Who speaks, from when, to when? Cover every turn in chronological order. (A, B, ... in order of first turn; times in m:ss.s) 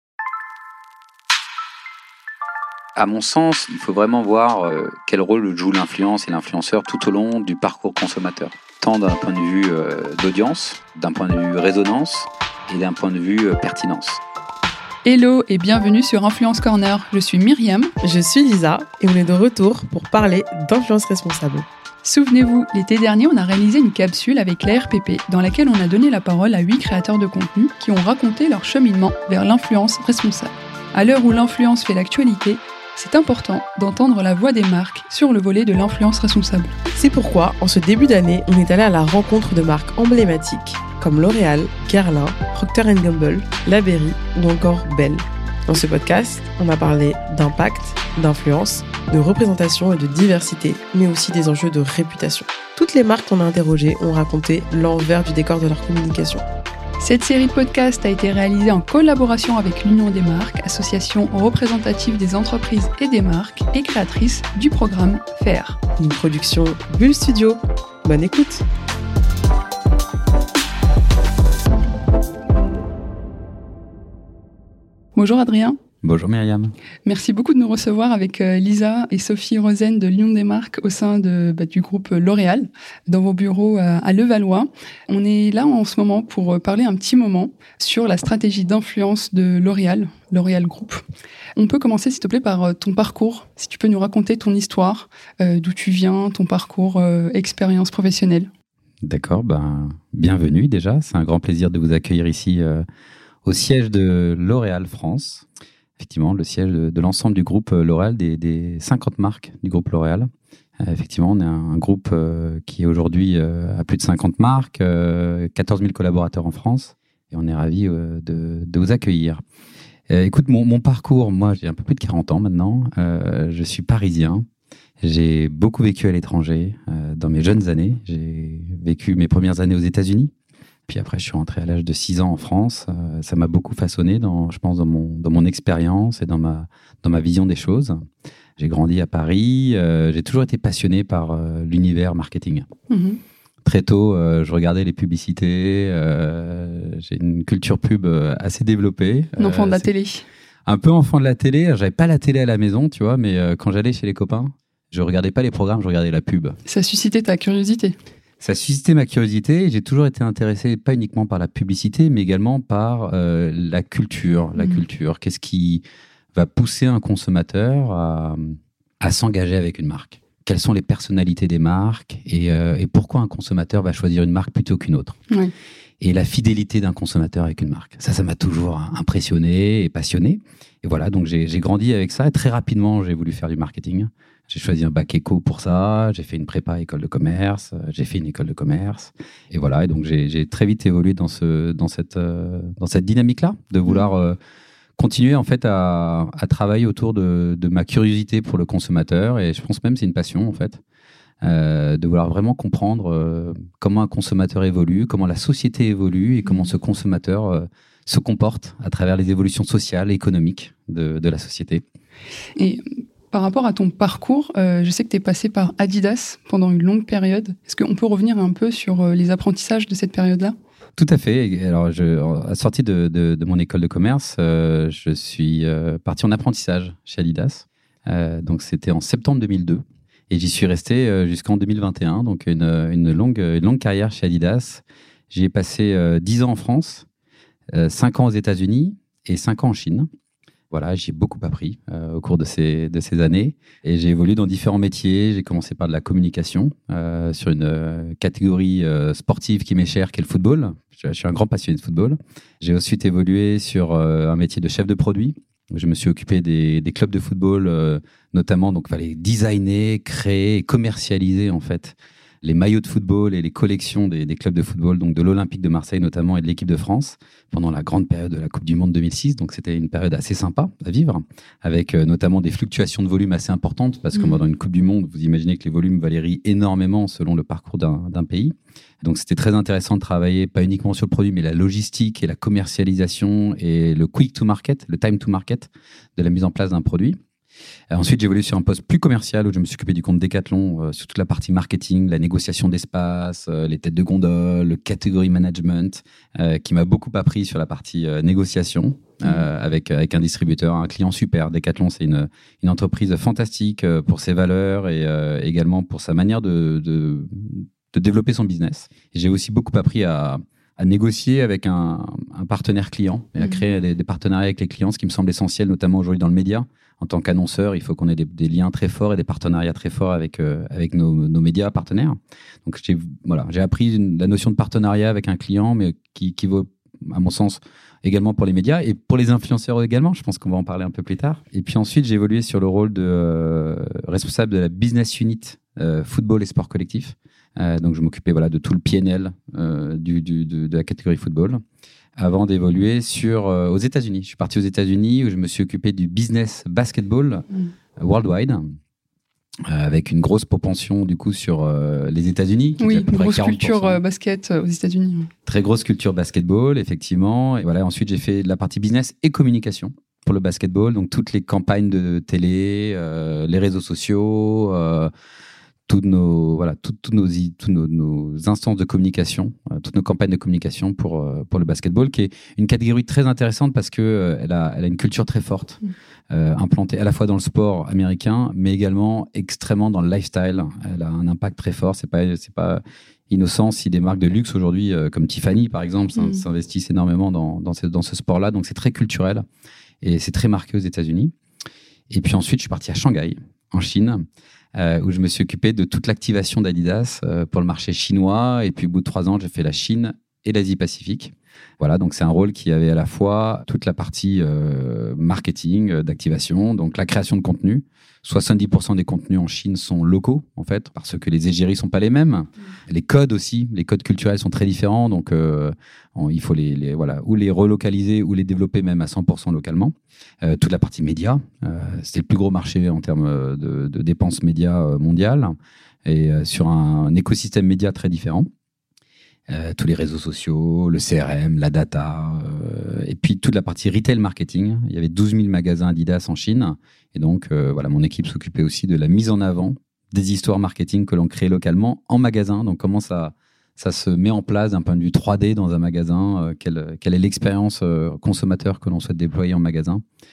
0:03.0-0:14.2 A
0:15.0-0:17.9 B
0:18.0-0:21.7 C
0:22.0-0:36.7 B
0:37.0-0:56.4 C
0:57.0-1:05.8 B
1:06.0-1:08.6 C
1:15.1-1:15.8 B
1:16.0-1:16.7 A
1:17.0-1:31.0 B
1:31.6-1:38.5 B
1:39.0-1:42.8 A
1:43.4-1:45.4 A
1:46.0-1:50.3 A
1:50.8-1:59.4 A
2:00.1-2:04.4 A
2:05.0-2:10.3 A
2:10.9-2:18.0 A
2:18.6-2:22.7 A
2:22.9-2:23.2 B
2:23.6-2:29.9 A
2:29.4-2:30.2 B
2:30.7-2:36.6 A
2:36.6-2:38.0 B
2:38.4-2:45.8 A
2:46.3-2:55.2 A
2:56.0-3:14.4 A
3:15.0-3:20.8 A
3:21.4-3:31.8 A
3:32.6-3:40.5 B
3:41.0-3:57.0 A
3:57.7-4:00.1 A
4:00.7-4:47.2 A
4:47.9-5:41.6 A
5:42.2-5:47.4 A
5:48.0-5:48.7 A
5:49.7-5:54.0 A
5:52.8-5:55.3 B
5:55.4-6:05.1 A
6:05.9-6:15.8 A
6:16.3-6:29.4 A
6:26.2-6:26.4 B
6:30.0-6:31.3 A
6:32.1-7:05.5 A
7:06.0-7:08.5 A
7:09.5-7:30.0 A